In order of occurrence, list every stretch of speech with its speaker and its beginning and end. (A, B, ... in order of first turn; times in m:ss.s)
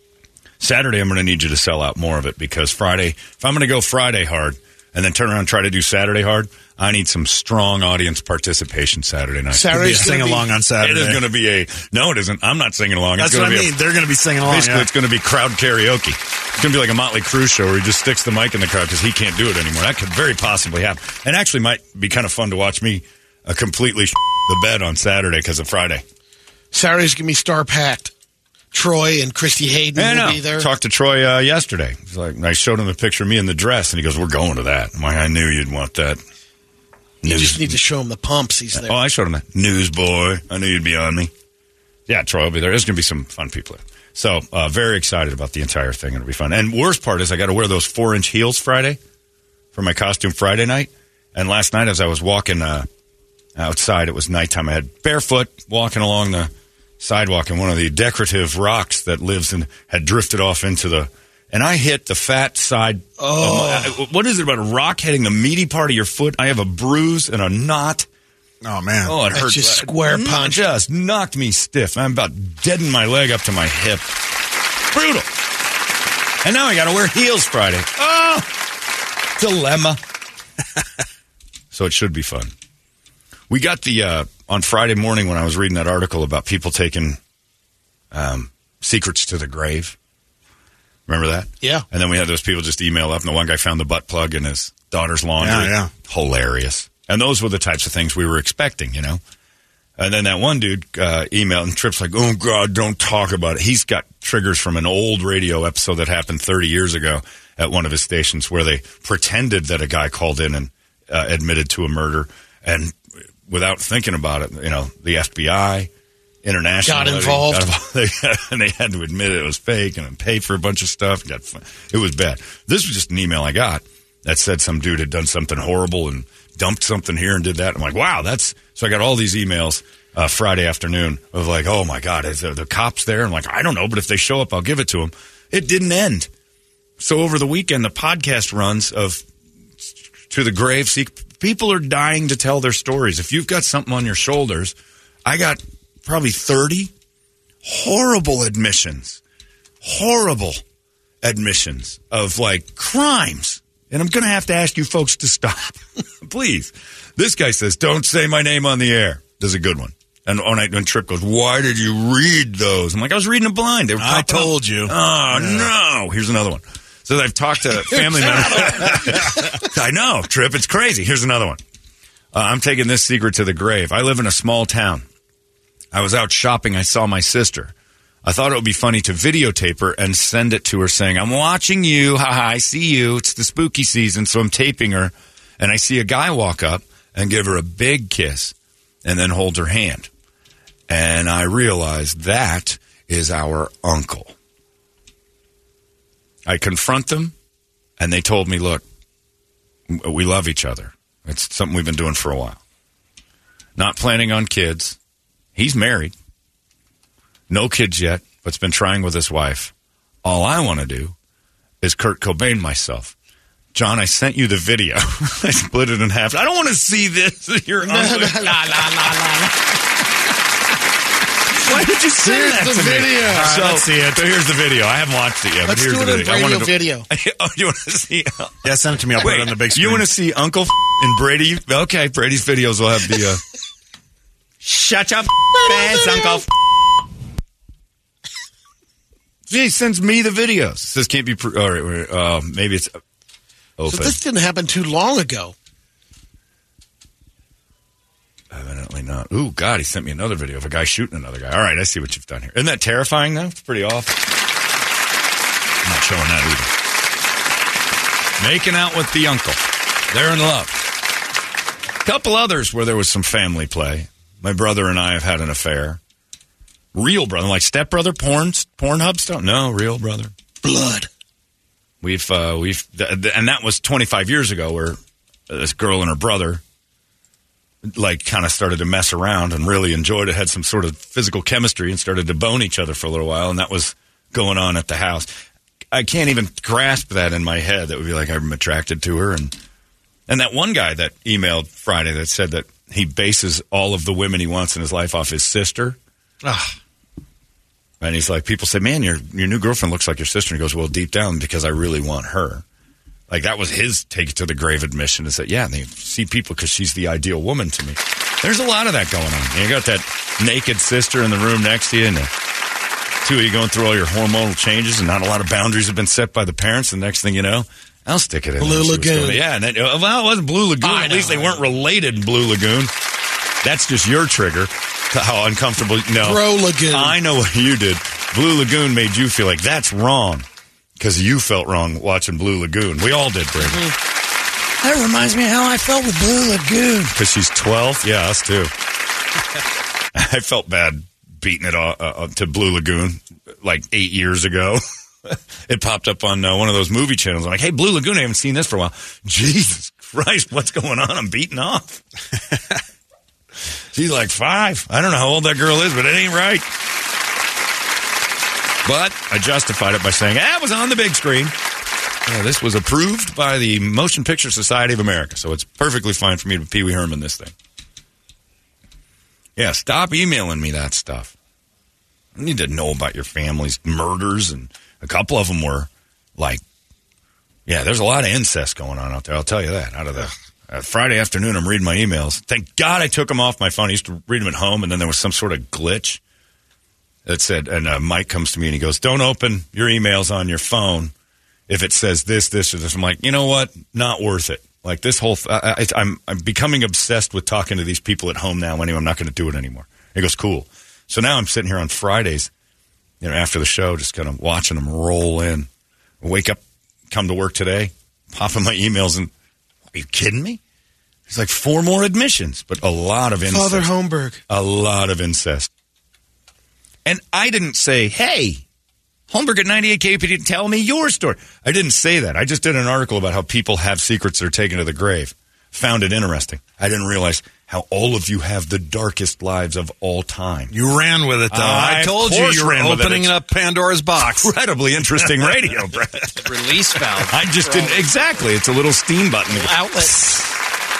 0:00.6-0:10.1 A
0:09.5-0:10.5 B
0:09.7-0:11.2 C
0:10.8-0:13.8 A
0:13.2-0:14.9 C
0:14.4-0:26.0 A
0:26.7-0:28.1 B
0:28.7-0:30.7 B
0:30.0-0:36.2 A
0:37.2-0:37.8 A
0:37.2-0:39.0 B
0:38.7-0:41.3 A
0:42.1-0:49.0 A
0:49.7-0:52.9 A
0:53.6-1:08.1 A
1:03.2-1:04.0 B
1:08.6-1:09.2 C
1:09.0-1:14.1 A
1:09.3-1:10.6 B
1:14.9-1:15.3 A
1:16.4-1:18.5 A
1:19.4-1:20.0 A
1:21.7-1:22.5 A
1:23.5-1:27.2 A
1:28.1-1:30.0 A
1:31.1-1:39.2 A
1:31.6-1:31.8 B
1:35.4-1:35.9 C
1:40.0-1:55.9 A
1:56.4-2:16.3 A
1:56.8-1:57.7 B
2:17.0-2:19.2 A
2:19.8-2:24.7 A
2:25.2-2:26.9 A
2:27.6-2:29.2 A
2:29.8-2:30.6 A
2:31.2-2:51.6 A
2:44.0-2:45.7 C
2:48.1-2:49.4 C
2:52.3-2:55.0 A
2:55.9-3:10.1 A
3:10.9-3:14.3 A
3:16.4-3:17.3 A
3:18.0-3:18.8 A
3:19.9-3:22.6 A
3:23.8-3:25.0 A
3:25.5-3:26.1 A
3:27.5-3:29.7 A
3:30.2-3:31.1 A
3:31.8-3:33.1 A
3:33.7-3:39.2 A
3:37.8-3:39.8 B
3:41.6-3:53.4 A
3:41.6-3:43.8 B
3:43.3-3:43.9 C
3:45.6-3:47.1 B
3:48.6-3:50.1 C
3:54.6-3:56.4 A
3:55.5-3:56.4 B
3:59.5-4:03.0 A
4:03.8-4:04.2 A
4:03.9-4:05.5 B
4:08.5-4:14.2 A
4:15.8-4:16.7 A
4:18.4-4:20.8 A
4:22.0-4:26.0 A
4:26.9-4:30.3 A
4:30.6-4:31.1 B
4:32.0-4:36.6 A
4:37.9-4:45.3 A
4:45.9-4:49.5 A
4:50.3-4:56.0 A
4:58.0-5:02.6 A
5:03.3-5:12.3 A
5:13.2-5:22.9 A
5:18.6-5:19.4 B
5:20.8-5:21.6 B
5:23.6-5:30.4 A
5:26.2-5:27.2 B
5:31.0-5:33.9 A
5:34.8-5:38.7 A
5:40.1-5:52.0 A
5:53.9-5:56.7 A
5:58.8-6:01.5 A
6:02.2-6:07.5 A
6:09.6-6:11.3 A
6:12.4-6:16.6 A
6:17.7-6:26.2 A
6:27.2-6:31.1 A
6:31.7-6:42.5 A
6:43.2-6:45.7 A
6:46.2-6:49.3 A
6:49.9-6:50.6 A
6:51.3-6:53.9 A
6:53.5-6:54.4 B
6:54.5-6:55.7 A
6:57.0-6:58.6 A
6:59.3-7:10.7 A
7:10.7-7:14.5 C
7:11.5-7:13.4 A
7:14.2-7:16.4 A
7:15.2-7:15.9 C
7:16.3-7:18.3 D
7:17.3-7:20.5 A
7:19.5-7:20.2 B